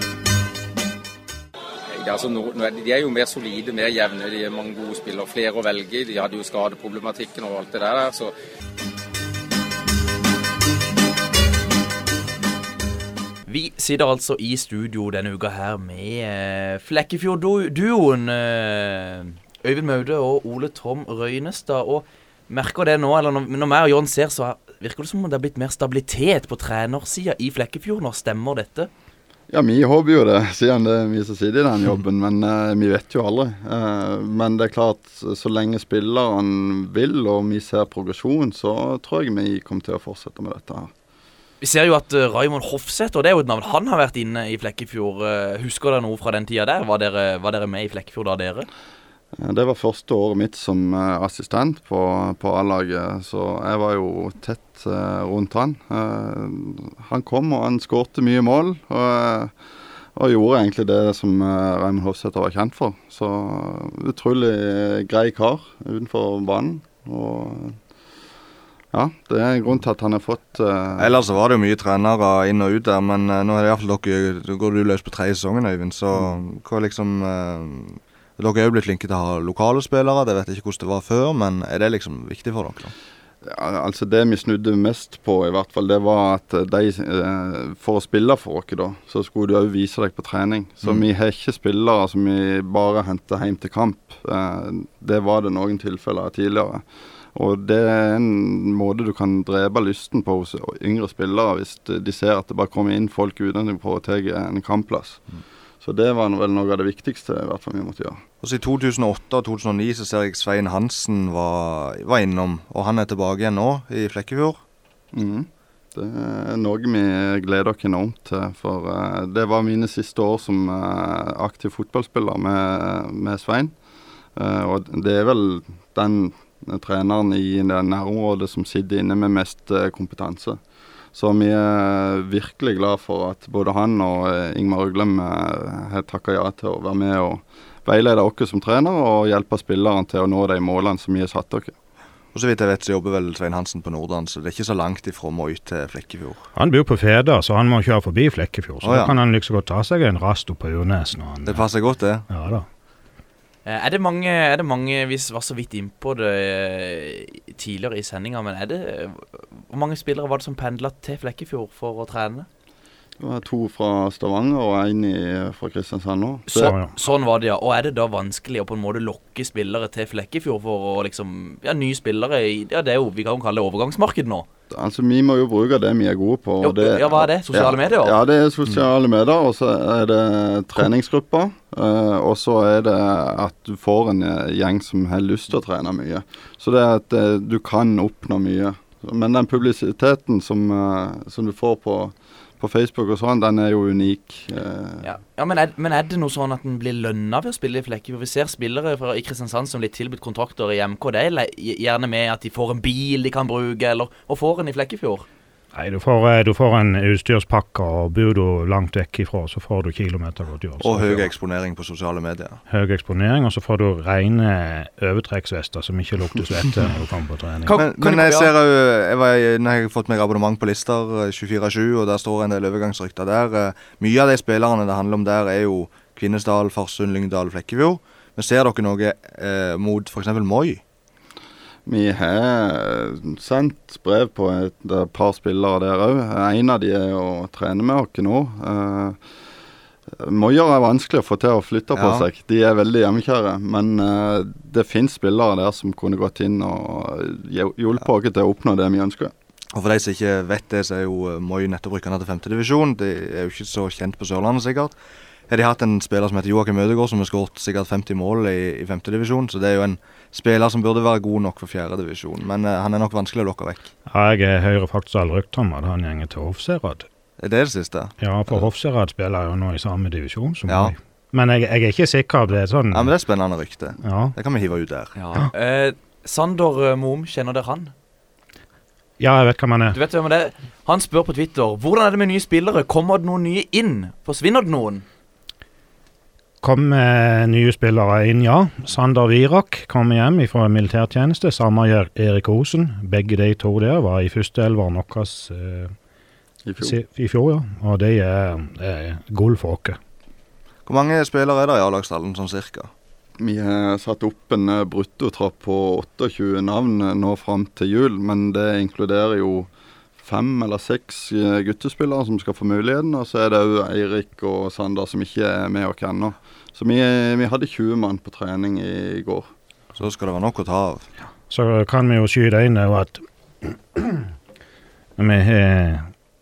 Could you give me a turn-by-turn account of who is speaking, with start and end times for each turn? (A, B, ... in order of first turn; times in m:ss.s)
0:01.9-0:08.3 A
0:13.5-0:28.9 B
0:29.5-0:40.9 C
0:41.6-0:48.7 B
0:49.4-0:59.5 C
1:00.1-1:07.8 C
1:08.9-1:11.2 C
1:11.0-1:22.9 D
1:23.4-1:45.2 C
1:45.8-1:48.2 C
1:48.4-1:54.6 D
1:55.1-2:03.7 C
2:04.4-2:10.6 C
2:11.1-2:21.7 C
2:22.3-2:26.4 D
2:26.6-2:31.7 E
2:28.8-2:29.2 D
2:31.4-2:32.2 D
2:32.3-2:32.7 E
2:33.6-2:42.5 B
2:43.2-2:46.7 C
2:46.5-2:54.5 B
2:46.6-2:46.9 E
2:54.7-3:15.1 C
2:56.6-2:58.2 B
3:15.0-3:25.3 B
3:25.7-3:31.3 E
3:30.8-3:32.6 D
3:32.7-3:37.8 E
3:37.6-3:38.5 B
3:37.7-3:50.8 D
3:51.8-3:59.2 C
4:00.1-4:09.3 C
4:01.9-4:02.2 D
4:09.7-4:14.9 D
4:15.5-4:23.9 D
4:24.1-4:27.1 E
4:27.4-4:28.5 D
4:28.2-4:33.1 E
4:30.7-4:30.9 D
4:32.9-4:35.1 D
4:34.0-4:34.4 E
4:35.2-4:37.9 B
4:39.2-4:40.0 E
4:39.9-4:45.0 B
4:46.6-4:55.9 E
4:56.6-4:57.0 C
4:56.8-5:00.0 E
5:00.8-5:02.9 D
5:03.4-5:09.7 C
5:10.2-5:19.5 C
5:20.0-5:21.1 D
5:21.5-5:24.3 E
5:25.2-5:26.1 E